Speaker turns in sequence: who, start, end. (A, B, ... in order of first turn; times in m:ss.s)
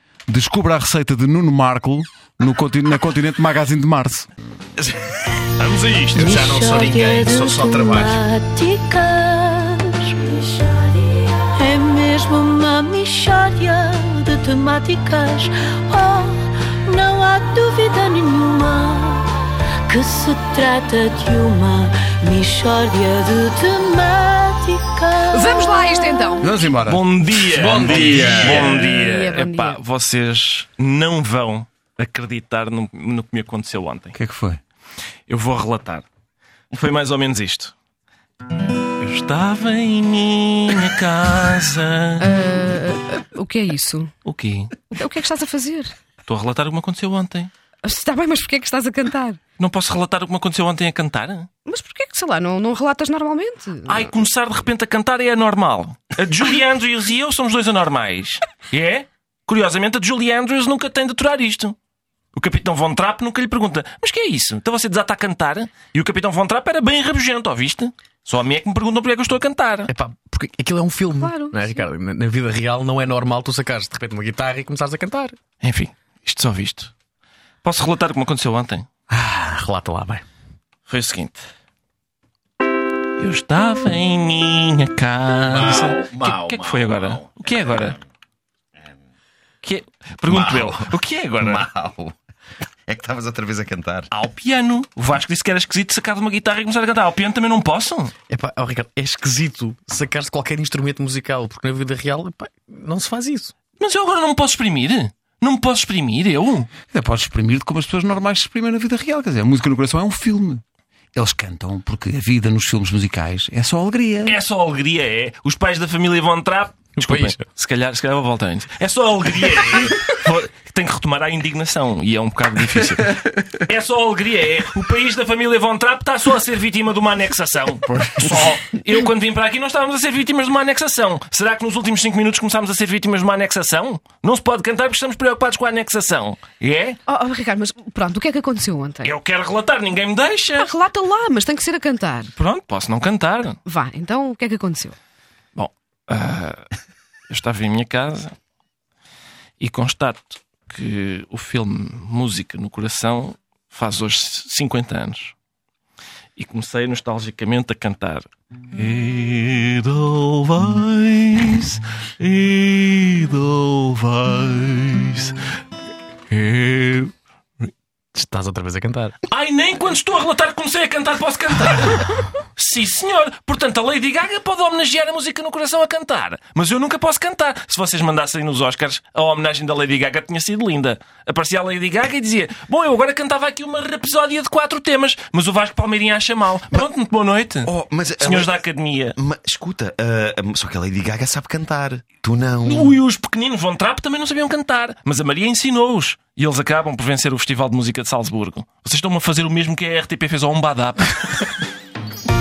0:00.3-0:04.3 A
0:05.6-0:06.4 B
0:06.1-0:08.2 C
0:06.2-0:19.3 D
0:19.9-0:26.2 D
0:25.3-0:26.7 E
0:26.4-0:27.0 A
0:26.8-0:34.1 B
0:27.5-0:28.9 C
0:28.8-0:29.8 E
0:34.1-0:34.6 A
0:35.3-0:36.0 B
0:36.7-0:37.7 B
0:39.0-0:42.3 B
0:42.2-0:44.1 E
0:44.2-0:44.9 B
0:44.9-0:45.9 E
0:46.2-0:47.5 B
0:47.8-0:49.4 E
0:49.6-0:51.5 B
0:51.6-0:54.1 E
0:53.8-1:01.8 B
1:02.3-1:09.9 B
1:09.9-1:15.4 C
1:11.2-1:11.9 E
1:15.6-1:16.9 B
1:17.6-1:18.8 B
1:19.1-1:20.2 C
1:20.9-1:21.5 B
1:23.2-1:28.0 B
1:25.5-1:27.9 F
1:29.6-1:31.7 B
1:30.3-1:32.2 F
1:32.8-1:34.1 F
1:34.1-1:38.1 B
1:38.3-1:43.5 C
1:43.8-1:46.7 B
1:46.9-1:50.6 A
1:51.1-1:54.4 A
1:54.2-2:17.0 B
1:57.0-1:57.4 C
2:17.1-2:19.1 E
2:19.0-2:20.7 B
2:20.5-2:22.3 E
2:22.4-2:23.6 B
2:23.6-2:25.0 E
2:25.5-2:26.6 B
2:27.3-2:28.3 B
2:29.6-2:35.3 B
2:36.4-2:45.4 B
2:46.3-2:47.1 B
2:48.1-2:49.2 C
2:49.3-3:09.2 B
3:07.6-3:08.6 F
3:09.2-3:13.0 F
3:12.6-3:21.5 B